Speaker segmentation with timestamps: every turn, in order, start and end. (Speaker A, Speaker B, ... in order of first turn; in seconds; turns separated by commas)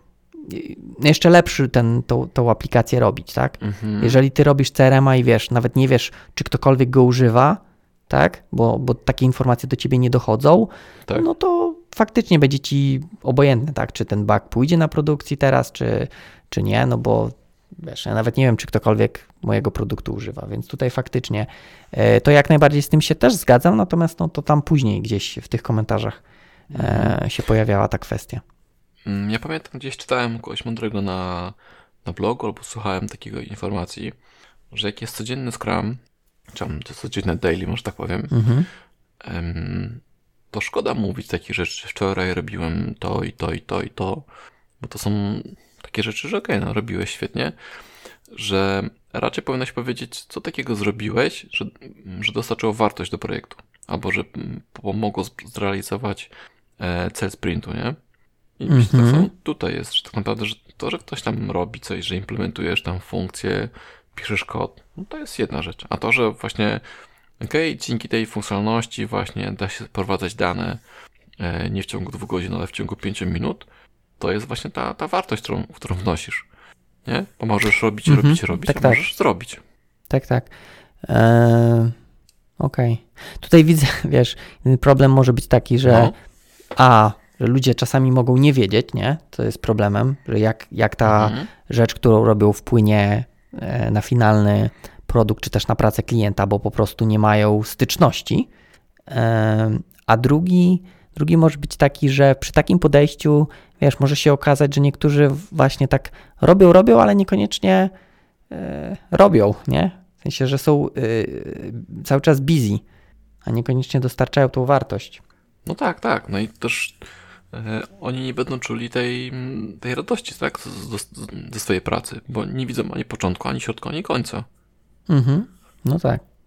Speaker A: 0.4-26.2, Speaker B: 3.6-4.2, Speaker B: 26.7-27.2, Speaker A: 26.7-28.4, Speaker B: 29.0-34.1, Speaker B: 34.7-36.0, Speaker B: 36.5-38.3, Speaker A: 38.3-38.7, Speaker B: 39.2-44.2, Speaker B: 44.8-47.5, Speaker B: 48.3-58.0, Speaker B: 58.6-66.8, Speaker A: 58.7-59.3, Speaker B: 67.4-70.8, Speaker B: 71.4-73.7, Speaker B: 74.2-76.5, Speaker B: 77.0-79.6, Speaker A: 78.0-79.0, Speaker A: 80.1-80.5, Speaker A: 81.0-81.9, Speaker A: 82.6-86.1, Speaker B: 85.8-86.1, Speaker A: 86.8-98.5, Speaker B: 91.0-91.5, Speaker A: 99.1-107.9, Speaker A: 108.5-112.8, Speaker A: 113.4-115.2, Speaker B: 115.7-124.5, Speaker A: 125.1-126.2